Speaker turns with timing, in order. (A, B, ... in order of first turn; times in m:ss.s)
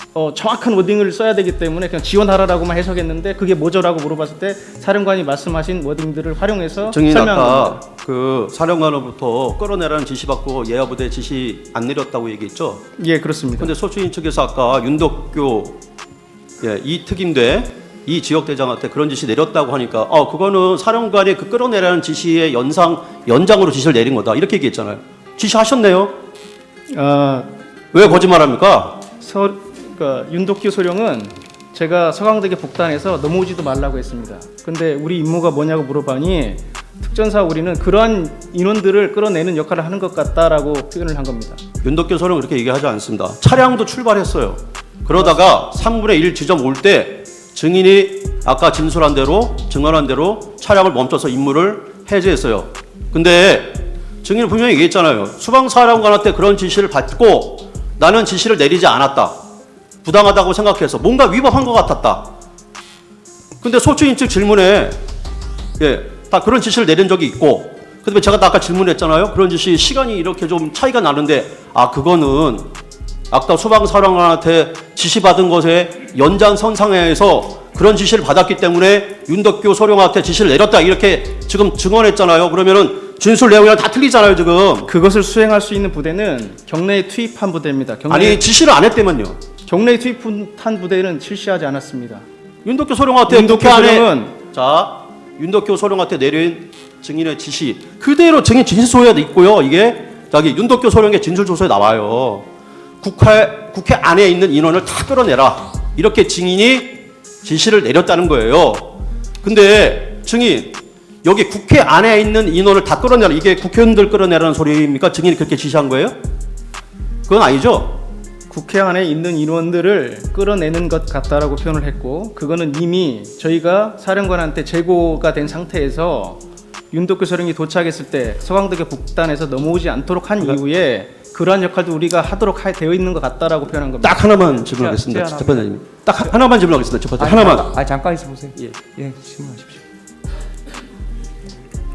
0:00.2-0:07.8 A
0:06.9-0:12.8 B
0:13.0-0:13.7 A
0:13.6-0:15.8 B
0:16.6-0:26.2 B
0:26.9-0:27.5 A
0:27.9-0:29.0 B
0:29.2-0:41.6 A
0:41.8-0:59.4 B
1:00.0-1:02.3 B
1:03.6-1:05.0 B
1:05.8-1:12.7 B
1:13.3-1:24.9 B
1:24.8-1:28.4 A
1:28.1-1:29.4 B
1:29.7-1:32.3 A
1:32.6-1:42.5 B
1:33.3-1:34.4 A
1:43.0-1:56.2 B
1:57.3-1:58.0 B
1:58.5-2:14.3 A
2:14.0-2:17.9 B
2:14.8-2:15.7 C
2:17.2-2:19.8 C
2:18.5-2:18.9 B